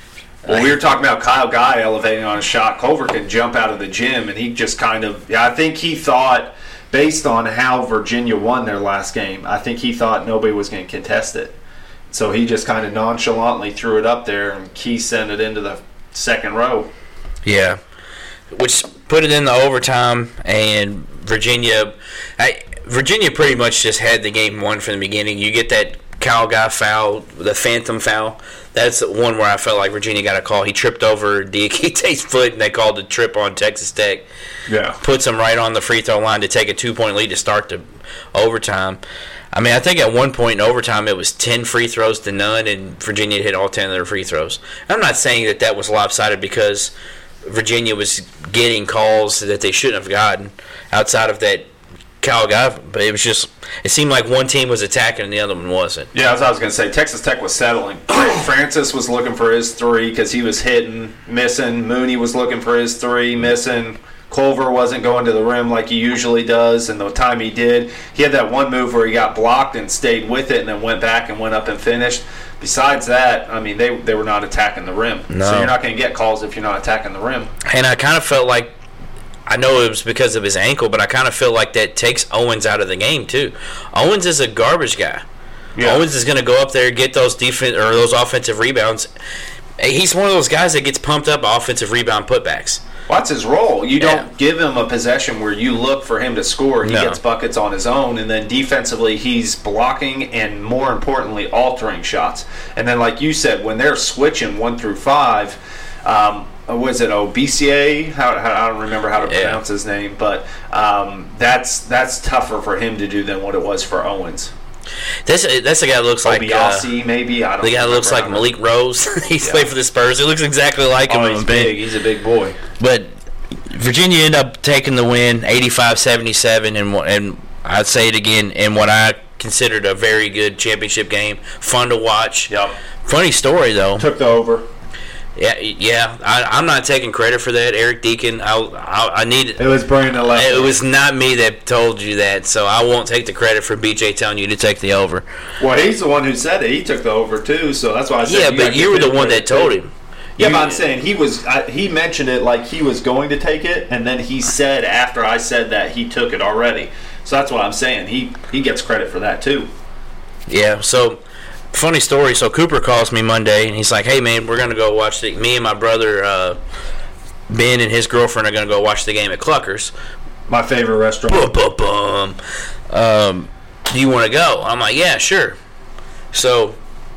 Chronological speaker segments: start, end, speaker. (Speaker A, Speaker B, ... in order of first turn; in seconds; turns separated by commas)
Speaker A: 0.5-11.6, Speaker A: 12.1-16.9, Speaker B: 17.4-17.8, Speaker B: 18.5-34.2, Speaker A: 34.7-35.0, Speaker B: 35.0-39.0, Speaker B: 39.5-46.9, Speaker B: 47.4-51.7, Speaker B: 52.2-56.1, Speaker A: 56.1-77.5, Speaker B: 75.3-75.7, Speaker B: 77.6-78.7, Speaker B: 79.5-85.2, Speaker A: 85.7-86.0, Speaker B: 85.8-89.1, Speaker B: 89.8-92.8, Speaker A: 93.1-114.5, Speaker B: 94.0-94.2, Speaker B: 96.8-97.2, Speaker B: 109.2-109.6, Speaker B: 115.2-116.9, Speaker A: 116.2-118.5, Speaker B: 117.6-121.8, Speaker A: 119.4-119.7, Speaker A: 121.1-122.6, Speaker B: 122.8-123.1, Speaker B: 123.7-132.5, Speaker A: 132.5-132.7, Speaker B: 133.0-134.1, Speaker A: 134.0-134.6, Speaker B: 135.3-139.6, Speaker A: 139.6-140.7, Speaker B: 140.3-145.2, Speaker A: 145.6-149.7, Speaker B: 148.2-150.8, Speaker A: 150.4-159.7, Speaker B: 160.5-161.2, Speaker B: 161.7-166.6, Speaker B: 167.5-169.9, Speaker A: 170.5-171.5, Speaker B: 171.3-172.4, Speaker B: 172.9-175.6, Speaker B: 176.3-176.8